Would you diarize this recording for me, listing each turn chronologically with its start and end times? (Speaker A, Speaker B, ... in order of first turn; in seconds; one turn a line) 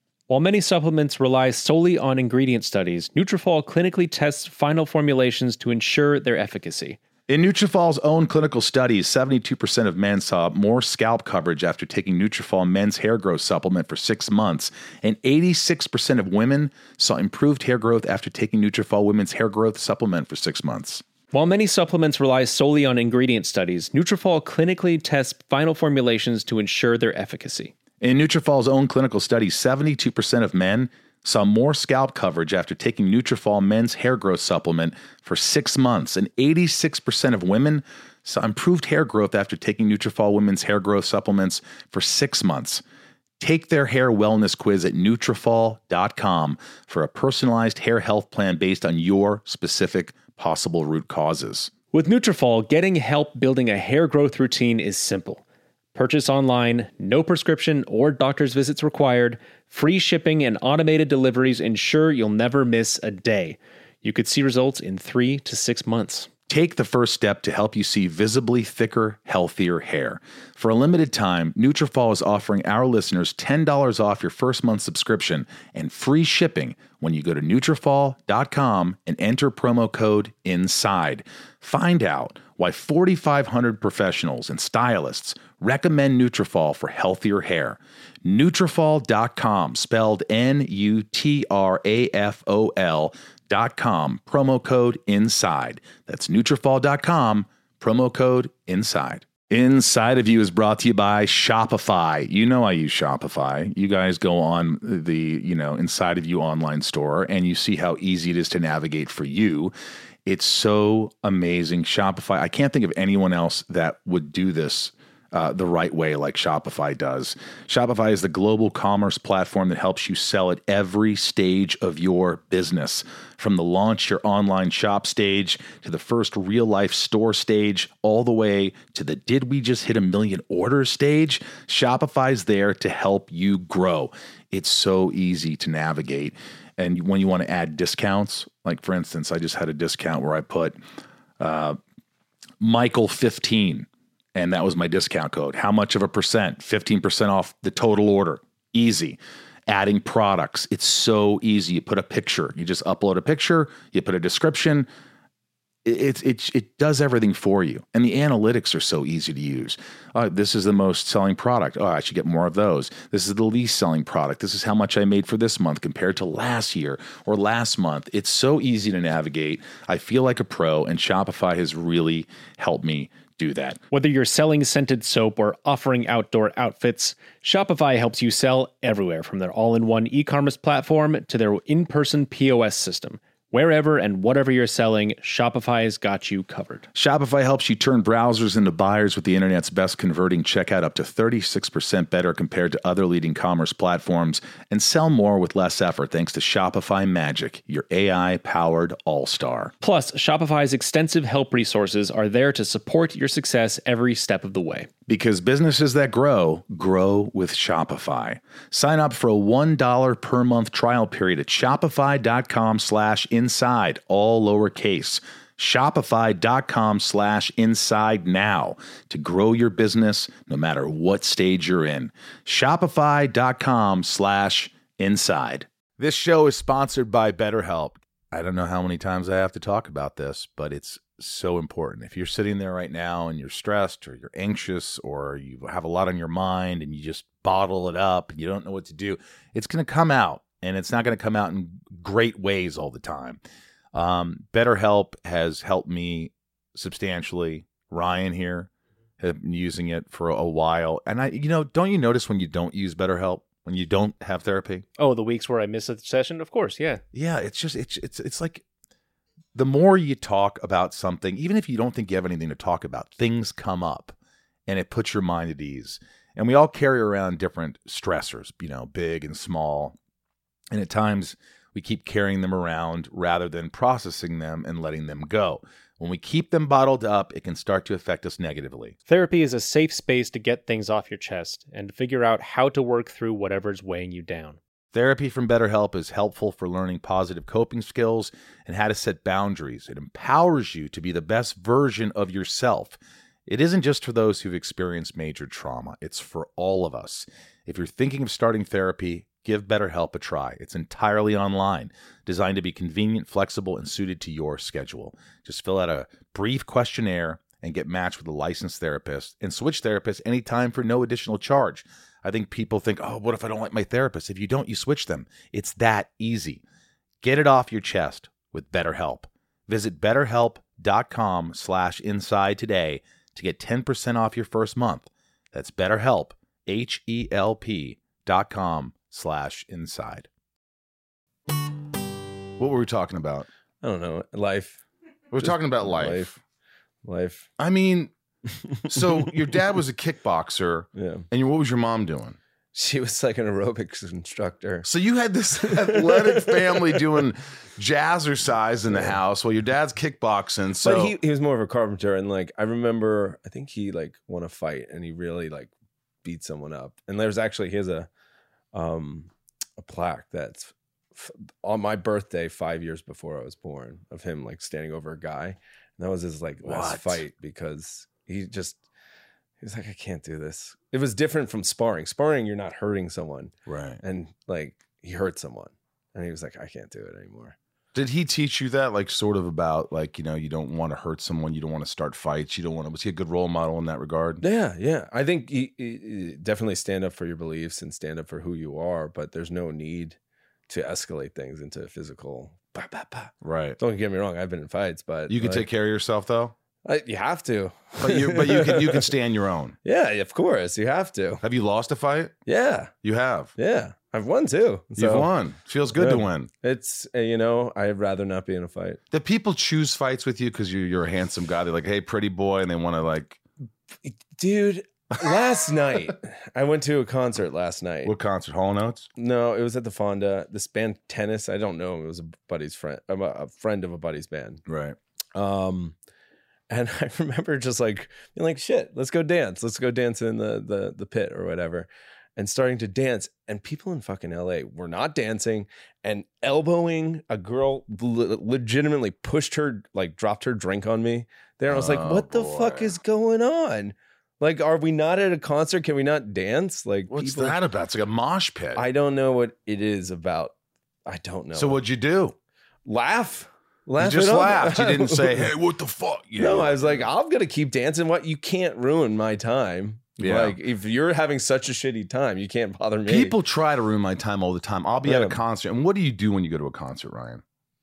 Speaker A: 0.3-7.0
Speaker B: 7.3-21.0
Speaker A: 21.3-27.7
Speaker B: 28.0-42.8
Speaker B: 43.4-51.7
Speaker A: 51.9-55.4
Speaker A: 55.9-66.3
Speaker B: 66.5-109.7
Speaker B: 110.2-140.8
Speaker B: 141.4-141.8
Speaker B: 142.6-154.9
Speaker B: 155.8-173.8
Speaker A: 173.9-186.9
Speaker B: 186.9-199.7
Speaker A: 199.8-204.9
Speaker B: 205.1-243.4
Speaker B: 243.9-254.8
Speaker A: 255.0-257.0
Speaker B: 257.1-258.6
Speaker B: 259.5-264.1
Speaker B: 264.7-269.9
Speaker B: 270.7-278.9
Speaker A: 279.1-284.6
Speaker B: 284.9-316.6
Speaker B: 317.2-330.3
Speaker B: 332.6-333.5
Speaker C: 333.8-334.8
Speaker B: 335.3-336.4
Speaker C: 335.4-336.3
Speaker C: 337.0-337.5
Speaker B: 337.6-338.1
Speaker C: 338.9-339.3
Speaker B: 338.9-342.4
Speaker C: 340.9-341.2
Speaker C: 342.7-344.9
Speaker B: 344.8-351.1
Speaker C: 345.6-347.1
Speaker C: 350.8-355.7
Speaker C: 356.2-358.1
Speaker C: 358.7-368.8
Speaker B: 366.6-367.2
Speaker C: 369.6-377.6
Speaker B: 373.6-374.0
Speaker B: 377.9-384.4
Speaker C: 384.4-390.2
Speaker C: 390.7-395.6
Speaker B: 393.4-393.8
Speaker B: 395.3-396.5
Speaker C: 396.8-399.1
Speaker B: 398.0-399.8
Speaker C: 399.8-401.4
Speaker B: 401.4-402.4
Speaker C: 402.4-402.9
Speaker B: 403.0-403.5
Speaker C: 403.6-405.3
Speaker B: 404.9-406.5
Speaker C: 405.9-409.0
Speaker B: 409.1-413.4
Speaker C: 414.0-418.1
Speaker B: 418.0-419.1
Speaker C: 419.1-424.6
Speaker B: 424.7-424.9
Speaker C: 425.3-425.9
Speaker C: 426.7-447.6
Speaker B: 441.7-443.0
Speaker B: 447.1-448.8
Speaker C: 448.8-450.5
Speaker C: 451.1-451.8
Speaker B: 451.5-452.4
Speaker C: 452.9-455.5
Speaker B: 454.0-457.1
Speaker C: 456.4-463.4
Speaker B: 460.2-460.6
Speaker B: 463.1-467.4
Speaker C: 465.0-465.4